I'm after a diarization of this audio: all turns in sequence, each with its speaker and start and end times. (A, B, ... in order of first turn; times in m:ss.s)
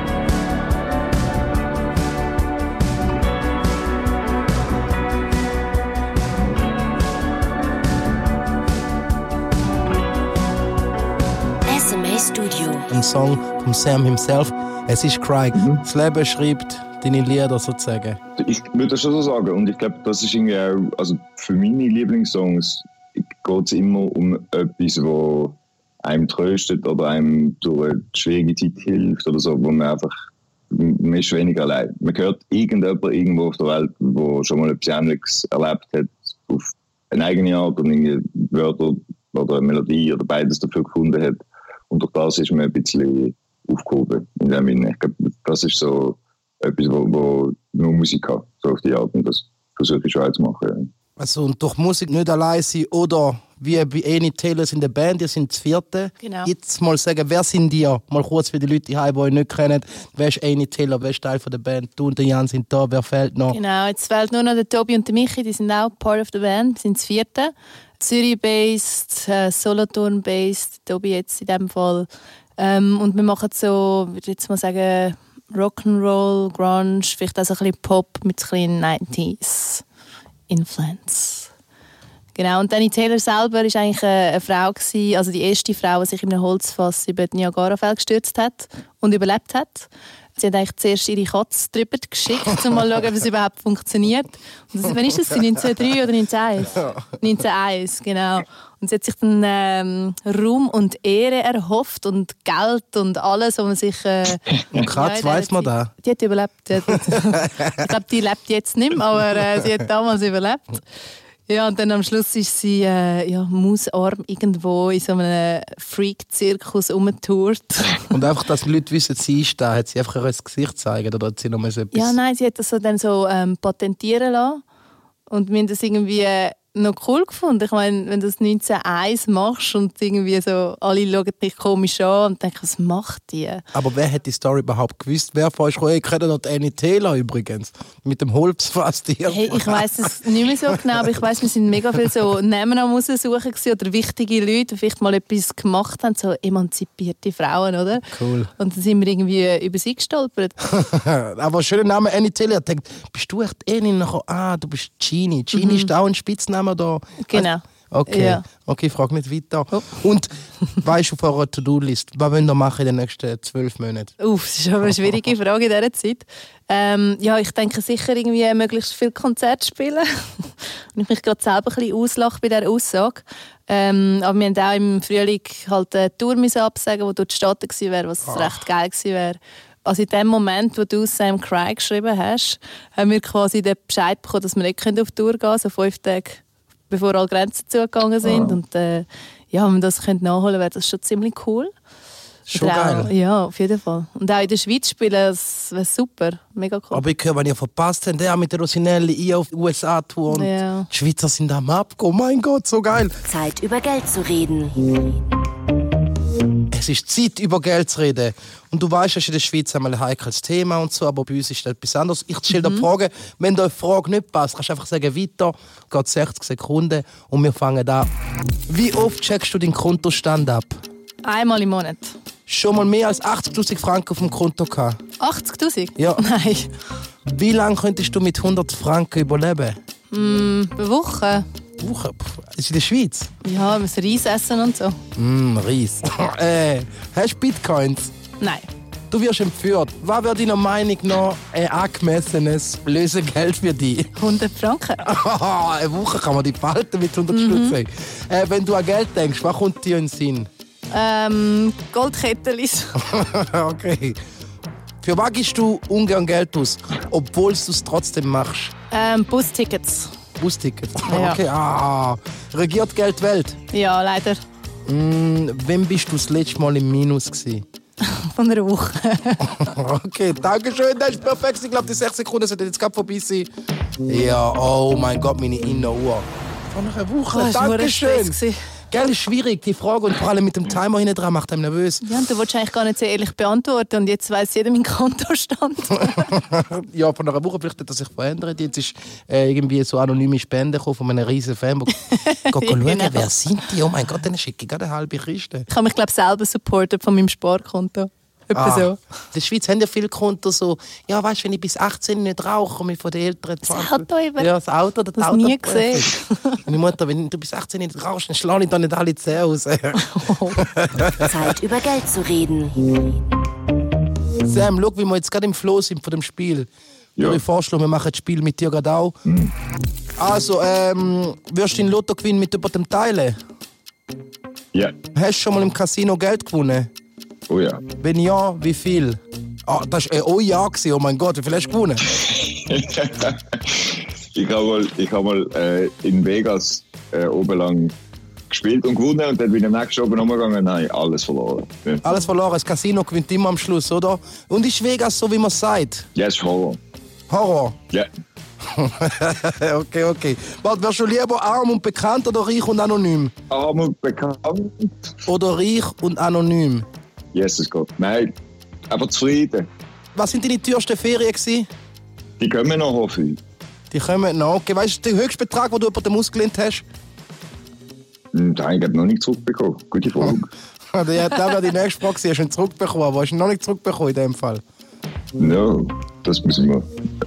0:11.7-0:12.9 A
0:12.9-0:18.2 B
0:18.4-0:30.1 C
0:30.7-0:50.9 C
0:51.2-1:03.6 B
0:56.2-0:56.5 D
1:03.5-1:19.8 D
1:20.5-1:21.5 D
1:22.4-1:50.8 D
1:44.7-1:45.9 B
1:51.5-1:58.0 D
1:58.1-2:02.2 B
2:01.9-2:04.6 D
2:05.3-2:13.6 D
2:13.7-2:20.1 B
2:19.3-2:28.1 D
2:28.1-2:28.5 B
2:28.6-2:30.6 D
2:30.6-2:44.1 B
2:35.5-2:35.9 D
2:37.2-2:38.4 D
2:44.2-3:11.7 D
2:58.2-2:58.6 B
3:12.5-3:13.1 B
3:12.5-3:17.0 D
3:16.9-3:23.2 B
3:20.3-3:20.9 D
3:23.3-3:24.8 A
3:26.7-3:38.1 B
3:32.5-3:32.8 D
3:38.7-3:40.8 B
3:41.2-3:42.2 D
3:42.5-3:45.0 B
3:45.2-3:46.7 D
3:47.2-3:49.8 B
3:50.1-3:51.4 D
3:51.8-3:53.3 B
3:53.4-3:55.0 D
3:55.2-3:58.1 B
3:58.4-3:58.6 D
3:59.1-4:04.1 B
4:04.2-4:05.0 D
4:05.0-4:10.5 B
4:07.3-4:07.8 D
4:10.9-4:13.0 D
4:13.0-4:14.2 B
4:15.0-4:18.7 B
4:18.9-4:20.1 D
4:20.4-4:23.6 B
4:21.0-4:21.4 D
4:23.7-4:24.4 D
4:24.9-4:27.6 B
4:28.0-4:29.5 D
4:29.4-4:33.5 B
4:34.1-4:38.4 B
4:37.3-4:38.6 D
4:38.9-4:42.0 B
4:42.0-4:46.3 D
4:46.0-4:52.0 B
4:52.0-4:53.3 D
4:52.5-4:55.7 B
4:55.7-4:59.0 D
4:58.5-5:11.5 B
5:03.6-5:04.5 D
5:05.2-5:06.6 D
5:10.0-5:10.6 D
5:11.2-5:12.8 A
5:14.4-5:19.2 B
5:19.2-5:19.5 C
5:20.2-5:23.4 B
5:25.1-5:26.9 B
5:27.5-5:27.8 C
5:28.0-5:32.0 B
5:32.1-5:37.9 C
5:38.5-5:42.0 C
5:42.0-5:46.0 B
5:46.1-5:46.8 C
5:47.3-5:47.8 B
5:48.6-5:53.3 B
5:53.5-5:55.1 C
5:55.3-5:56.9 B
5:57.3-5:58.3 C
5:58.9-5:59.7 C
6:00.2-6:01.7 B
6:02.4-6:03.4 C
6:03.9-6:06.8 B
6:08.3-6:10.5 C
6:10.9-6:14.6 B
6:15.4-6:16.9 C